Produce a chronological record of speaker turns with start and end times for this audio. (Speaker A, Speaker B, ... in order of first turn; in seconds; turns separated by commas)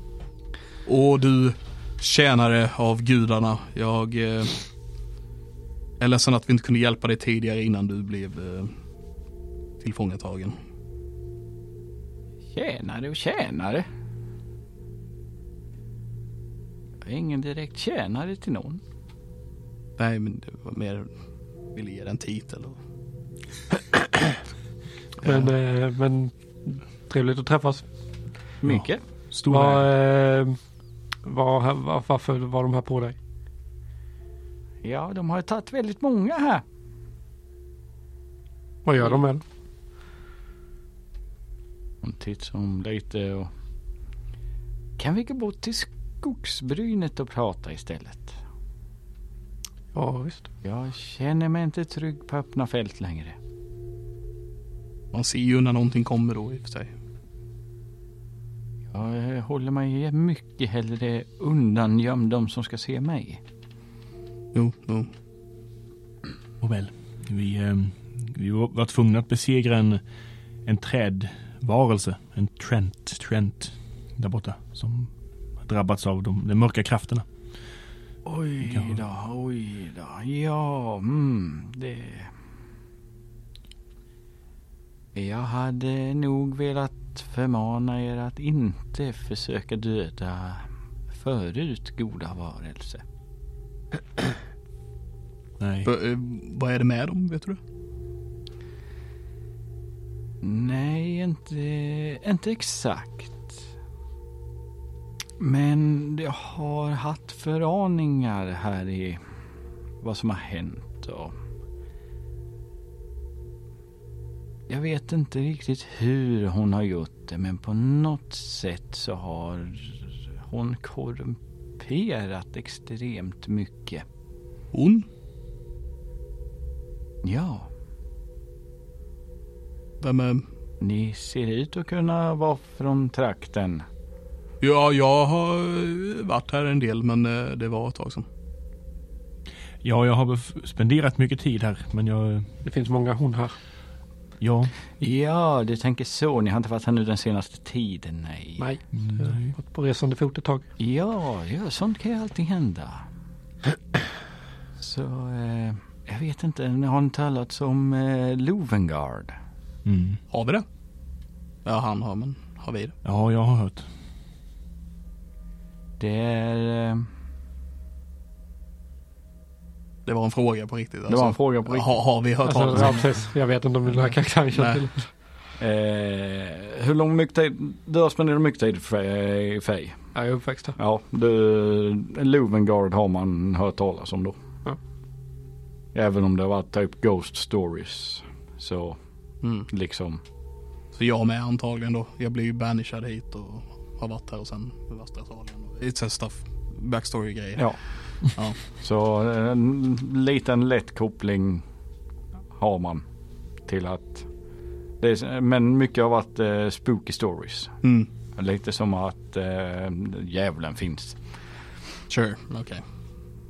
Speaker A: 0.8-4.6, Speaker A: 6.0-8.7, Speaker A: 9.8-10.6, Speaker B: 12.5-13.8, Speaker B: 17.0-18.8, Speaker A: 20.0-21.1, Speaker A: 21.7-22.8, Speaker C: 25.2-27.9, Speaker B: 28.6-29.0, Speaker D: 28.6-29.9, Speaker C: 29.5-30.6, Speaker C: 31.2-33.2, Speaker B: 34.8-36.6, Speaker C: 38.9-39.4, Speaker B: 42.0-43.5, Speaker B: 45.0-48.4, Speaker C: 49.9-50.5, Speaker B: 50.6-53.4, Speaker A: 55.1-56.9, Speaker B: 58.9-63.4, Speaker A: 64.5-65.1, Speaker D: 66.6-70.0, Speaker D: 70.6-75.1, Speaker D: 75.6-77.2, Speaker B: 78.2-82.3, Speaker D: 78.6-79.0, Speaker B: 85.1-93.0, Speaker D: 95.6-95.9, Speaker A: 95.8-97.6, Speaker B: 100.4-103.6, Speaker B: 105.4-109.2, Speaker B: 110.0-111.3, Speaker B: 114.7-124.0, Speaker A: 124.7-125.0, Speaker B: 127.2-127.7, Speaker A: 130.0-130.4, Speaker B: 130.8-133.8, Speaker A: 134.6-138.2, Speaker D: 139.8-142.5, Speaker C: 142.6-143.5, Speaker D: 144.4-144.7, Speaker B: 145.0-148.6, Speaker C: 148.6-150.7, Speaker D: 148.9-149.5, Speaker B: 150.8-153.0, Speaker B: 154.8-159.3, Speaker D: 159.8-160.2, Speaker A: 160.3-160.6, Speaker A: 161.6-162.9, Speaker D: 163.0-163.8, Speaker B: 166.0-167.1, Speaker A: 170.1-173.1, Speaker B: 171.1-171.9, Speaker C: 172.4-175.1, Speaker A: 174.5-174.8, Speaker B: 175.6-180.0, Speaker C: 180.1-180.8, Speaker B: 180.8-184.3, Speaker B: 185.9-189.0, Speaker A: 189.4-189.7, Speaker B: 189.7-190.2, Speaker A: 190.9-198.6, Speaker B: 198.7-201.6, Speaker B: 202.5-203.0, Speaker B: 203.7-204.3, Speaker B: 205.0-207.8, Speaker A: 207.8-208.1, Speaker B: 208.3-211.2, Speaker A: 212.1-212.8